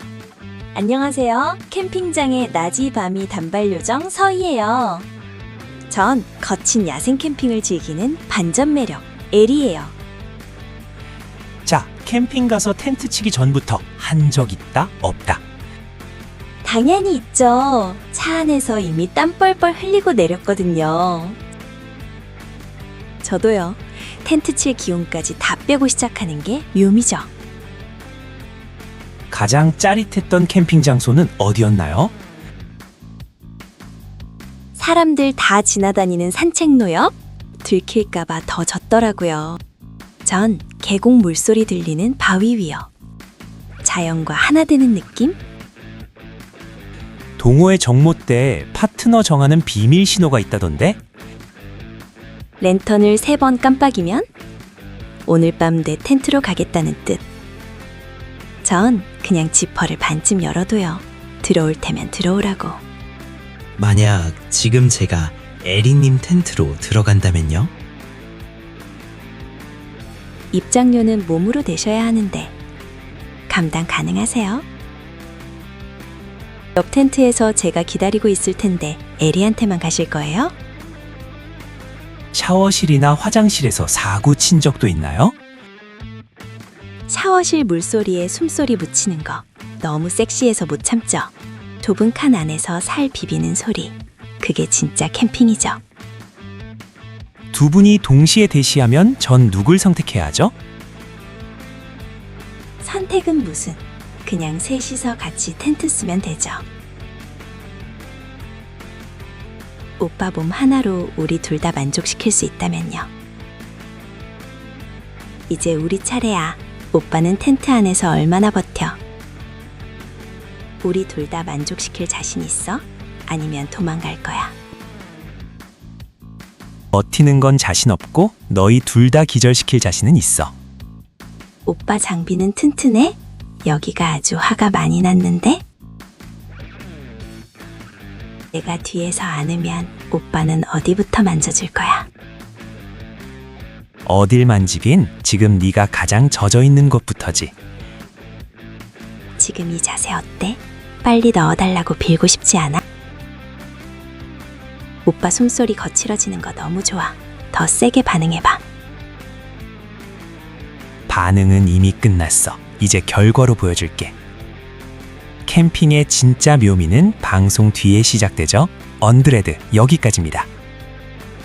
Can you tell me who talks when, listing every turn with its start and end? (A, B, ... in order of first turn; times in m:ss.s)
0:00.7-0:05.0 A
0:05.9-0:09.9 A
0:11.6-0:15.4 B
0:16.6-0:21.4 A
0:23.2-0:27.3 A
0:29.3-0:32.1 B
0:34.7-0:39.6 A
0:40.2-0:42.9 A
0:43.8-0:45.4 A
0:47.4-0:51.0 B
0:52.6-0:54.3 A
0:55.2-0:57.2 A
0:58.6-1:02.8 A
1:03.8-1:07.7 C
1:10.5-1:12.5 A
1:13.5-1:14.6 A
1:16.7-1:20.5 A
1:22.3-1:25.3 B
1:27.1-1:35.8 A
1:37.5-1:40.5 B
1:42.8-1:46.6 A
1:50.0-1:53.1 A
1:55.5-1:59.0 A
2:00.8-2:04.5 A
2:06.9-2:10.5 B
2:11.6-2:15.6 A
2:18.5-2:22.1 A
2:24.0-2:27.5 B
2:29.4-2:32.8 A
2:35.0-2:38.6 A
2:41.1-2:44.1 B
2:45.4-2:50.5 B